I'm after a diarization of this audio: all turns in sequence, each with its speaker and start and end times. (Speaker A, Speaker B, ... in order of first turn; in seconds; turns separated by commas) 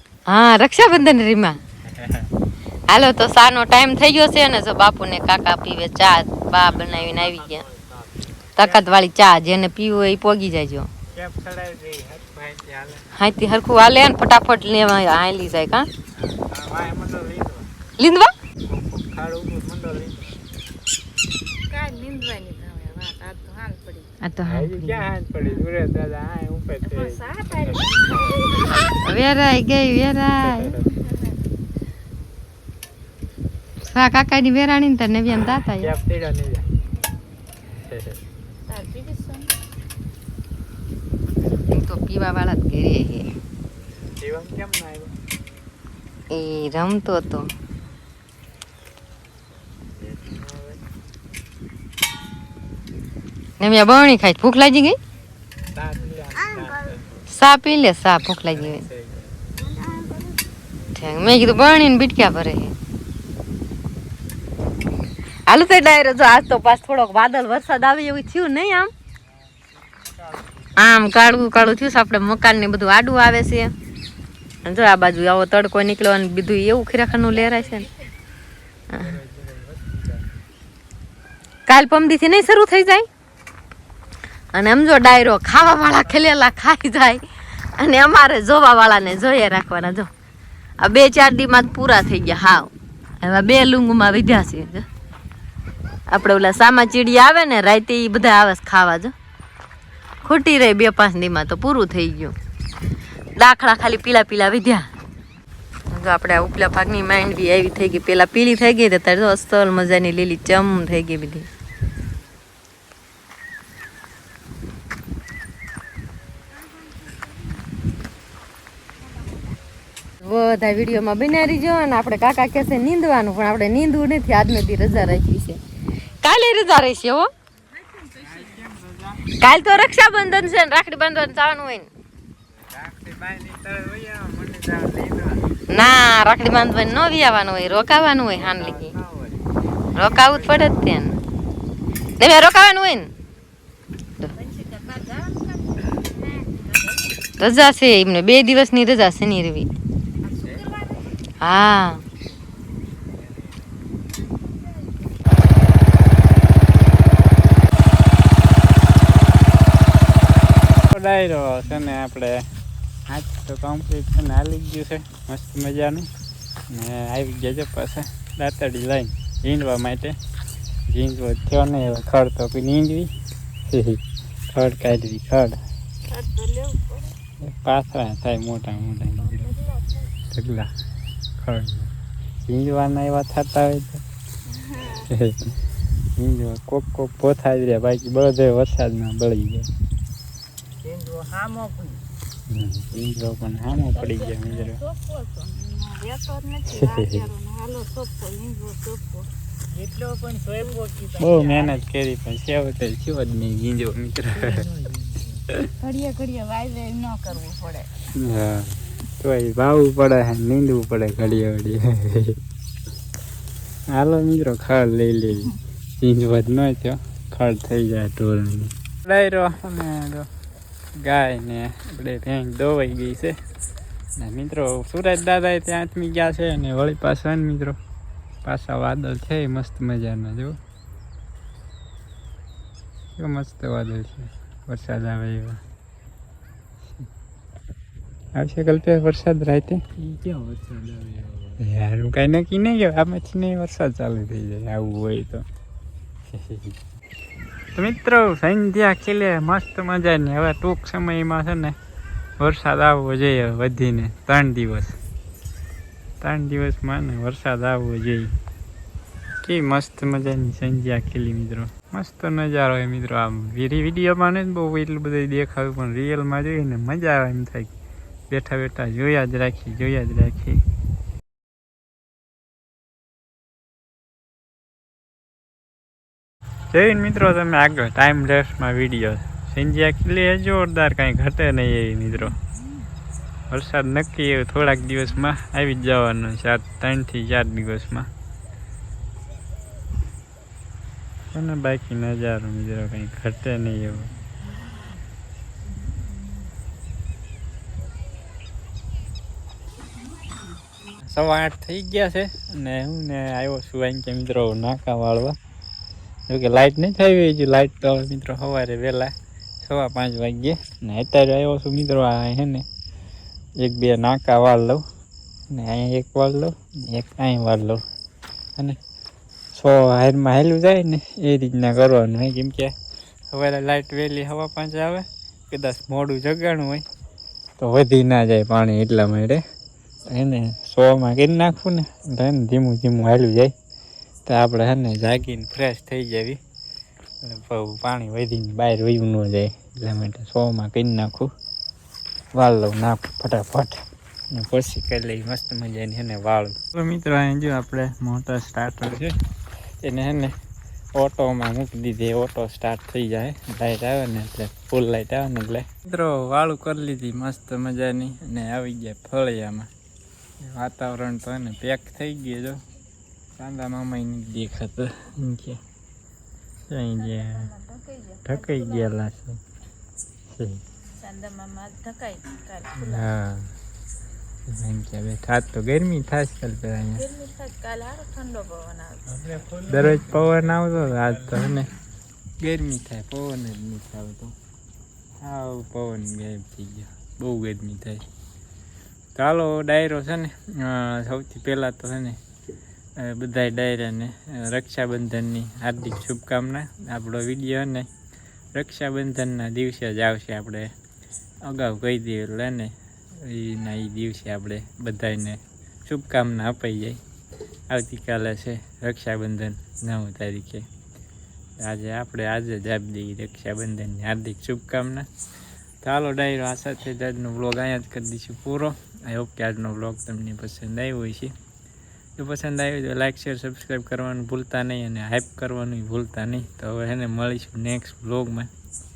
Speaker A: 0.3-1.6, Speaker B: 1.9-2.3, Speaker A: 2.9-7.6, Speaker B: 6.7-8.0, Speaker A: 8.6-10.9, Speaker B: 11.1-13.1, Speaker A: 13.2-15.9, Speaker B: 16.2-17.7, Speaker A: 18.0-18.3, Speaker B: 18.6-20.4, Speaker C: 21.7-24.1, Speaker A: 24.2-25.1, Speaker B: 24.4-28.0, Speaker C: 26.9-28.8, Speaker A: 28.9-30.7, Speaker B: 30.4-30.8, Speaker A: 33.9-35.9, Speaker B: 35.5-36.6, Speaker B: 37.9-38.2, Speaker C: 38.7-39.5, Speaker A: 41.7-43.3, Speaker B: 44.2-45.1, Speaker A: 46.3-47.5, Speaker B: 50.0-50.8, Speaker A: 53.6-55.0, Speaker B: 55.7-57.0, Speaker A: 57.3-58.8, Speaker B: 58.5-59.2, Speaker C: 59.6-60.3, Speaker A: 61.0-62.7, Speaker A: 65.5-68.9, Speaker B: 70.2-70.7, Speaker A: 70.8-73.7, Speaker A: 74.6-77.9, Speaker B: 79.0-80.2, Speaker A: 81.7-83.1, Speaker A: 84.5-87.2, Speaker A: 87.8-90.1, Speaker A: 90.8-92.7, Speaker A: 93.2-94.8, Speaker A: 96.1-99.1, Speaker A: 100.2-102.3, Speaker A: 103.4-104.9, Speaker A: 105.9-111.5, Speaker A: 120.2-125.6, Speaker A: 126.2-127.3, Speaker B: 128.2-129.2, Speaker A: 129.4-131.9, Speaker B: 132.6-135.4, Speaker A: 135.7-138.9, Speaker B: 138.5-139.4, Speaker A: 139.9-141.1, Speaker B: 140.3-140.7, Speaker A: 142.2-143.1, Speaker C: 144.5-145.4, Speaker A: 147.4-149.7, Speaker C: 150.3-150.7, Speaker A: 151.4-152.0, Speaker B: 160.9-162.4, Speaker B: 163.1-166.1, Speaker B: 166.7-170.1, Speaker B: 170.9-173.1, Speaker B: 173.7-174.0, Speaker B: 174.5-175.6, Speaker C: 176.1-177.1, Speaker B: 177.4-179.5, Speaker C: 179.4-180.0, Speaker B: 180.3-180.7, Speaker B: 181.4-181.9, Speaker B: 182.4-184.0, Speaker C: 184.7-185.0, Speaker B: 184.9-185.5, Speaker B: 186.2-189.7, Speaker D: 190.9-191.9, Speaker B: 192.5-194.8, Speaker C: 193.9-199.3, Speaker B: 196.7-197.3, Speaker D: 199.7-201.8, Speaker C: 200.4-201.3, Speaker B: 201.2-204.7, Speaker C: 205.8-207.9, Speaker B: 208.1-212.3, Speaker B: 213.9-220.3, Speaker B: 221.0-223.3, Speaker B: 224.2-227.8, Speaker B: 228.4-230.6, Speaker B: 233.2-235.6, Speaker B: 238.3-239.8, Speaker B: 241.6-245.4, Speaker B: 246.3-246.7, Speaker B: 247.8-251.8, Speaker B: 252.4-255.0, Speaker B: 256.2-258.3, Speaker B: 259.4-267.7, Speaker B: 268.3-270.6, Speaker B: 276.7-282.4, Speaker B: 283.5-288.1, Speaker B: 291.3-294.1, Speaker B: 301.1-305.4, Speaker B: 306.3-312.6, Speaker B: 313.6-314.8, Speaker B: 315.5-317.8, Speaker B: 319.5-322.7, Speaker B: 323.3-326.8, Speaker B: 327.6-329.4, Speaker B: 330.1-333.5, Speaker B: 334.2-336.4, Speaker B: 337.2-341.3, Speaker B: 342.3-343.8, Speaker B: 344.3-349.1, Speaker B: 349.8-350.3, Speaker B: 350.9-359.7, Speaker B: 360.4-362.6, Speaker B: 363.4-365.6, Speaker B: 366.7-367.5, Speaker C: 366.9-368.9, Speaker B: 368.2-369.4, Speaker B: 370.4-370.6, Speaker C: 371.0-373.1, Speaker B: 372.8-373.5, Speaker B: 374.5-377.1, Speaker C: 376.9-379.4, Speaker B: 379.7-381.7, Speaker B: 382.4-384.3, Speaker B: 385.2-388.0, Speaker B: 389.1-392.2, Speaker B: 393.0-397.9, Speaker B: 398.5-400.7, Speaker B: 401.4-407.0, Speaker B: 407.7-410.6, Speaker B: 411.6-415.1, Speaker B: 415.8-421.3, Speaker B: 422.2-428.5